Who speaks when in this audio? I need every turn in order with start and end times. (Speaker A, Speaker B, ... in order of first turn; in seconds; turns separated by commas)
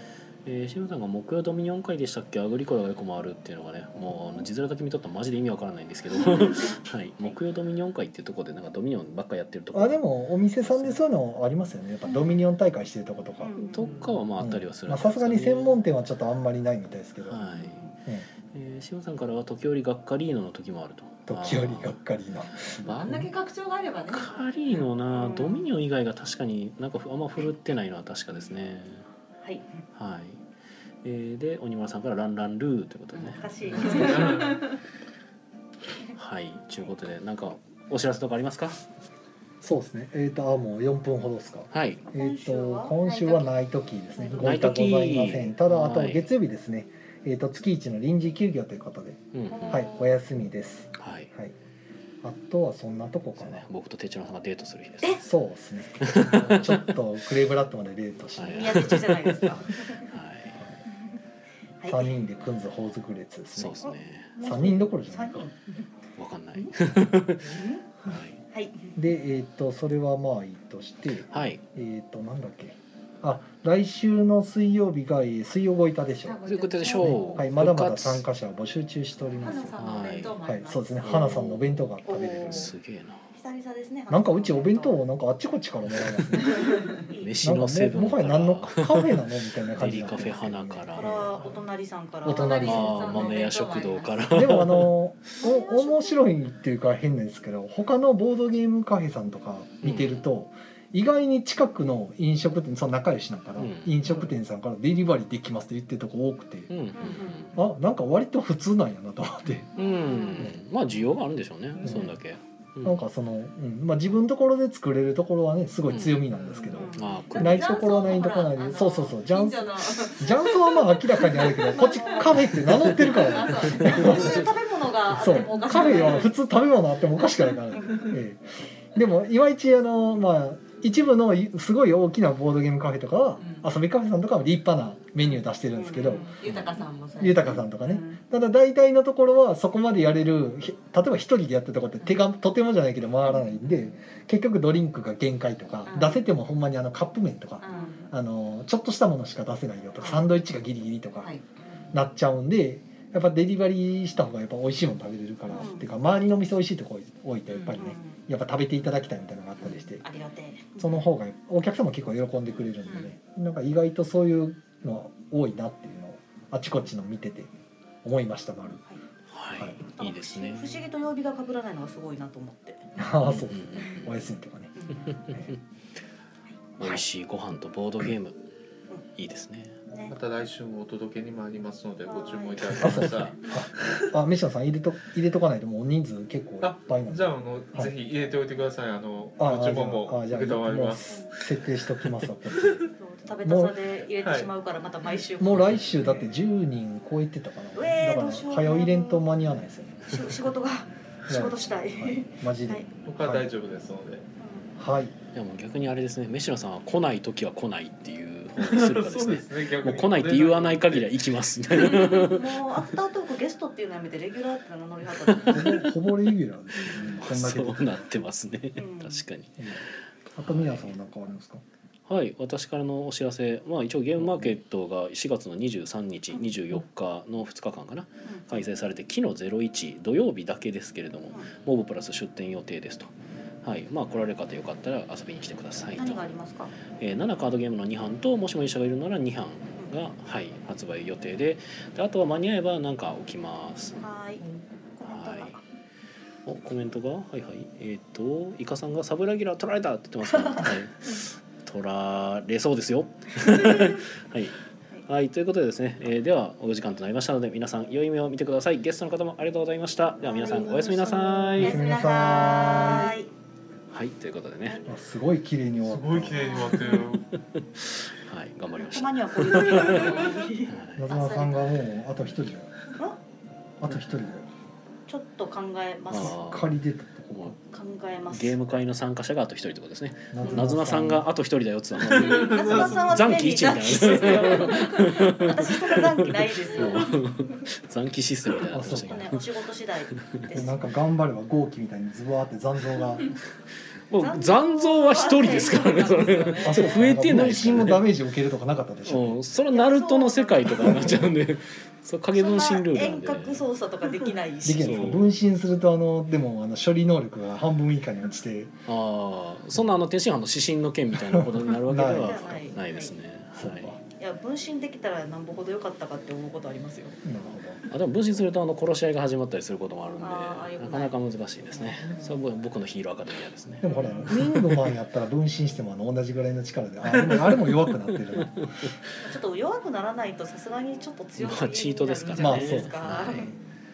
Speaker A: 0.5-10.0, Speaker B: 6.2-6.8, Speaker C: 9.7-13.5, Speaker A: 10.6-11.0, Speaker B: 12.1-12.3, Speaker B: 13.4-14.0, Speaker A: 13.6-15.8, Speaker C: 14.4-17.4, Speaker A: 17.2-17.9, Speaker B: 17.4-17.9, Speaker A: 18.5-22.0, Speaker C: 21.3-23.3, Speaker A: 22.7-23.2, Speaker D: 22.8-24.4, Speaker A: 24.1-29.0, Speaker B: 25.2-25.6, Speaker A: 29.9-30.4, Speaker A: 31.0-34.1, Speaker B: 33.2-34.7, Speaker D: 33.8-34.2, Speaker E: 33.8-34.6, Speaker A: 36.1-38.8, Speaker C: 39.6-51.5, Speaker A: 41.7-42.0, Speaker B: 42.1-43.5, Speaker B: 44.1-44.9, Speaker A: 44.4-46.3, Speaker A: 49.3-49.9, Speaker B: 49.5-50.2, Speaker A: 51.0-51.3, Speaker C: 52.2-53.6, Speaker A: 53.4-55.2, Speaker C: 55.2-59.6, Speaker A: 56.0-57.0, Speaker A: 58.3-60.6, Speaker B: 58.5-60.0, Speaker B: 61.8-62.1, Speaker C: 61.9-65.5, Speaker A: 63.5-64.3, Speaker B: 63.8-65.8, Speaker A: 66.2-68.4, Speaker B: 67.4-67.8, Speaker B: 68.5-68.9, Speaker C: 68.9-76.4, Speaker A: 71.3-71.6, Speaker D: 76.2-77.4, Speaker A: 76.4-78.2, Speaker C: 77.0-79.8, Speaker D: 79.4-81.2, Speaker A: 79.8-80.4, Speaker C: 80.4-82.7, Speaker A: 81.0-81.9, Speaker B: 82.0-82.7, Speaker A: 82.4-83.2, Speaker B: 83.3-85.0, Speaker C: 84.1-86.8, Speaker A: 86.0-86.4, Speaker B: 86.5-87.3, Speaker A: 87.1-91.3, Speaker C: 87.4-91.5, Speaker B: 90.9-93.3, Speaker C: 92.2-93.3, Speaker D: 92.2-94.5, Speaker A: 92.6-94.9, Speaker C: 94.3-106.7, Speaker B: 95.4-96.2, Speaker A: 99.8-100.2, Speaker A: 103.6-104.0, Speaker A: 106.7-107.6, Speaker B: 106.9-107.5, Speaker C: 107.5-109.7, Speaker A: 109.7-113.0, Speaker B: 109.8-110.5, Speaker D: 110.0-110.3, Speaker C: 111.8-112.1, Speaker C: 112.8-124.5, Speaker A: 115.9-116.2, Speaker E: 116.3-116.8, Speaker B: 116.7-117.2, Speaker A: 116.9-118.0, Speaker D: 117.3-124.5, Speaker B: 121.5-126.3, Speaker C: 125.1-128.4, Speaker D: 125.2-126.3, Speaker B: 127.8-128.1, Speaker C: 128.9-136.3, Speaker D: 133.4-133.7, Speaker B: 135.7-136.3, Speaker D: 136.0-137.6, Speaker A: 136.4-136.8, Speaker C: 137.2-151.3, Speaker B: 137.8-138.2, Speaker D: 145.9-146.2, Speaker D: 147.6-148.0, Speaker B: 147.7-148.1, Speaker B: 150.0-150.2, Speaker C: 151.9-160.0, Speaker B: 155.5-155.9, Speaker B: 157.7-158.2, Speaker B: 159.6-160.9, Speaker C: 160.8-167.5, Speaker C: 168.0-168.8, Speaker A: 169.3-170.8, Speaker B: 169.8-172.9, Speaker C: 173.0-174.7, Speaker A: 173.2-174.2, Speaker B: 174.8-175.2, Speaker C: 175.3-175.5, Speaker A: 176.8-178.4, Speaker A: 179.1-179.8, Speaker B: 179.9-180.2, Speaker E: 180.1-184.1, Speaker B: 182.1-182.7, Speaker A: 182.7-183.3, Speaker C: 182.8-187.9, Speaker E: 186.6-191.2, Speaker C: 189.4-192.8, Speaker B: 191.1-191.3, Speaker E: 192.5-192.9, Speaker B: 193.0-195.9, Speaker C: 193.4-193.8, Speaker E: 194.2-194.5, Speaker C: 195.4-200.1, Speaker E: 196.0-196.2, Speaker B: 197.7-199.2, Speaker B: 200.1-202.9, Speaker C: 201.3-203.4, Speaker E: 203.0-204.2, Speaker B: 204.4-204.7, Speaker C: 204.8-205.1, Speaker A: 205.3-212.6, Speaker E: 208.6-211.1, Speaker B: 211.7-215.9, Speaker A: 215.2-215.8, Speaker C: 215.5-218.1, Speaker A: 216.8-219.7, Speaker B: 216.8-217.2, Speaker B: 218.7-219.2, Speaker C: 219.6-219.8, Speaker C: 220.3-221.6, Speaker A: 220.4-220.9, Speaker A: 222.1-236.3, Speaker C: 224.2-224.5, Speaker B: 236.0-236.7, Speaker A: 237.0-244.0, Speaker B: 244.0-244.4, Speaker B: 244.9-245.6, Speaker A: 245.0-245.6, Speaker A: 246.4-261.9, Speaker B: 253.5-254.0, Speaker B: 260.2-263.3, Speaker C: 261.6-263.1, Speaker A: 263.9-264.8, Speaker C: 264.9-266.5, Speaker E: 265.8-267.3, Speaker B: 266.4-267.0, Speaker A: 266.5-271.0, Speaker B: 268.8-270.8, Speaker C: 270.9-272.7, Speaker D: 271.1-271.6, Speaker C: 273.8-274.4, Speaker B: 275.1-276.4, Speaker A: 276.1-276.7, Speaker C: 276.1-277.6, Speaker B: 277.7-278.6, Speaker A: 278.3-290.6, Speaker C: 280.3-281.2, Speaker B: 280.4-280.8, Speaker E: 282.1-283.2, Speaker B: 282.1-287.2, Speaker C: 288.7-289.4, Speaker B: 288.8-290.9, Speaker C: 290.5-293.3, Speaker A: 294.1-298.1, Speaker B: 294.2-297.1, Speaker C: 296.6-299.4, Speaker A: 299.0-303.6, Speaker B: 299.7-301.3, Speaker C: 300.8-301.2, Speaker B: 302.3-305.2, Speaker C: 304.6-308.7, Speaker A: 304.8-305.3, Speaker A: 308.9-313.9, Speaker C: 311.3-312.7, Speaker B: 312.1-313.1, Speaker C: 313.5-314.0, Speaker B: 314.1-317.2, Speaker C: 317.2-317.8, Speaker A: 317.9-324.9, Speaker B: 320.2-321.2, Speaker B: 321.7-322.5, Speaker C: 323.8-328.9, Speaker B: 323.9-324.2, Speaker E: 323.9-324.3, Speaker A: 328.1-328.9, Speaker B: 329.2-333.5, Speaker A: 331.4-333.5, Speaker C: 332.3-333.6